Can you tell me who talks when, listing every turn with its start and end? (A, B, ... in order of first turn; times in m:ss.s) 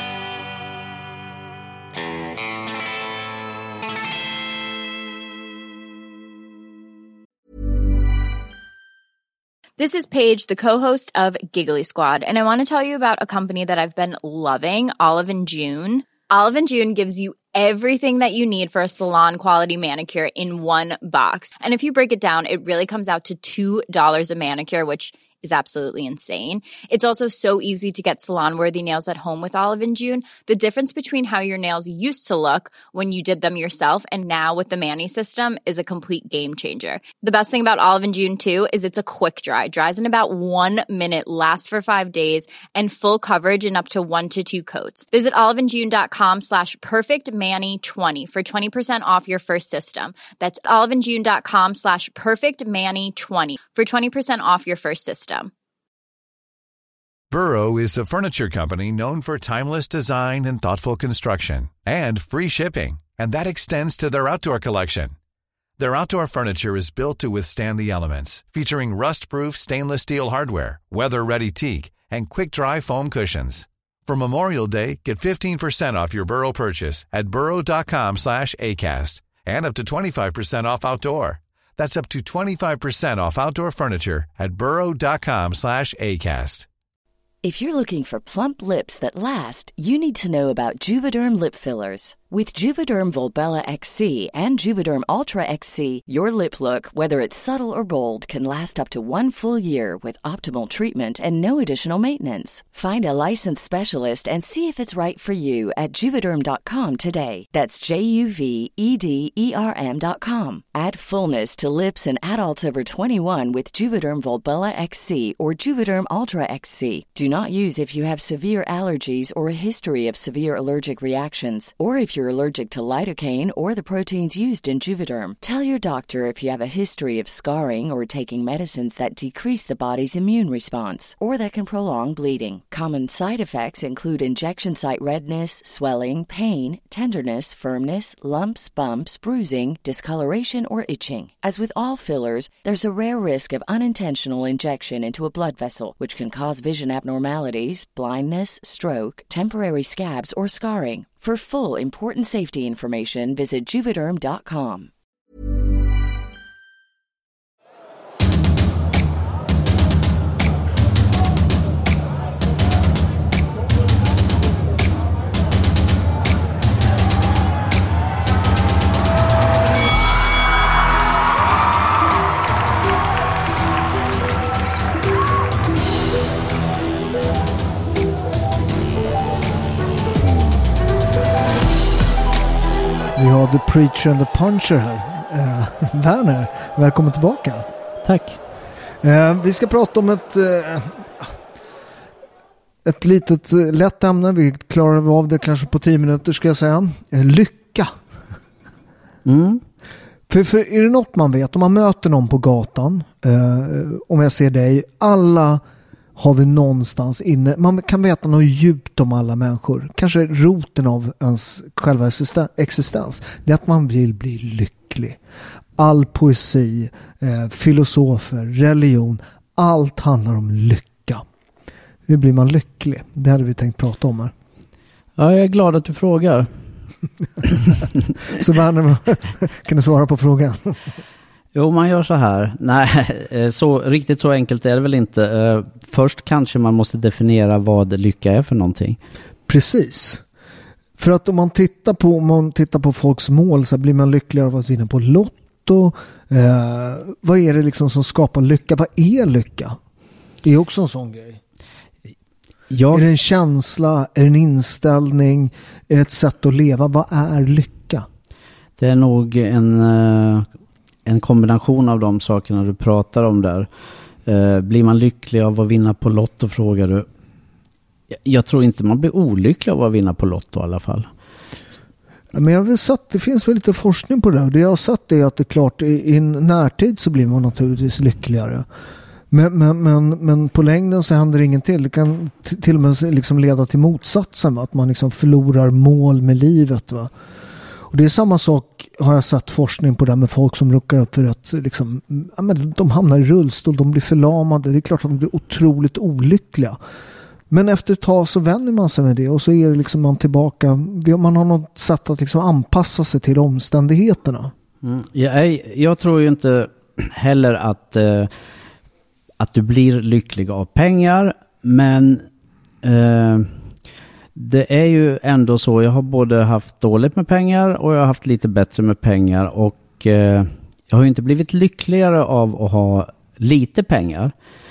0:09.8-0:55.5 A
0:57.3-1:05.1 B
1:05.8-1:26.7 B
1:27.4-2:34.9 C
3:03.1-3:07.7 D
3:08.0-3:08.4 E
3:09.0-3:11.3 D
3:12.8-3:17.9 D
3:19.2-3:19.6 E
3:20.3-3:25.6 D
3:26.2-3:35.2 D
3:35.8-3:41.2 D
3:42.1-3:44.3 D
3:45.2-3:46.5 E
3:48.3-3:50.8 D
3:51.5-3:59.0 E
3:59.5-4:00.2 D
4:01.0-4:09.8 D
4:10.4-4:11.4 D
4:12.7-4:13.0 E
4:12.9-4:18.0 D
4:18.8-4:20.4 E
4:21.0-4:23.7 E
4:24.2-4:27.0 E
4:28.2-4:31.1 E
4:32.3-4:38.6 D
4:39.3-4:47.1 D
4:47.9-4:56.8 D
4:57.5-5:04.5 D
5:04.8-5:08.3 E
5:09.4-5:12.3 E
5:12.8-5:13.5 E
5:14.3-5:24.3 E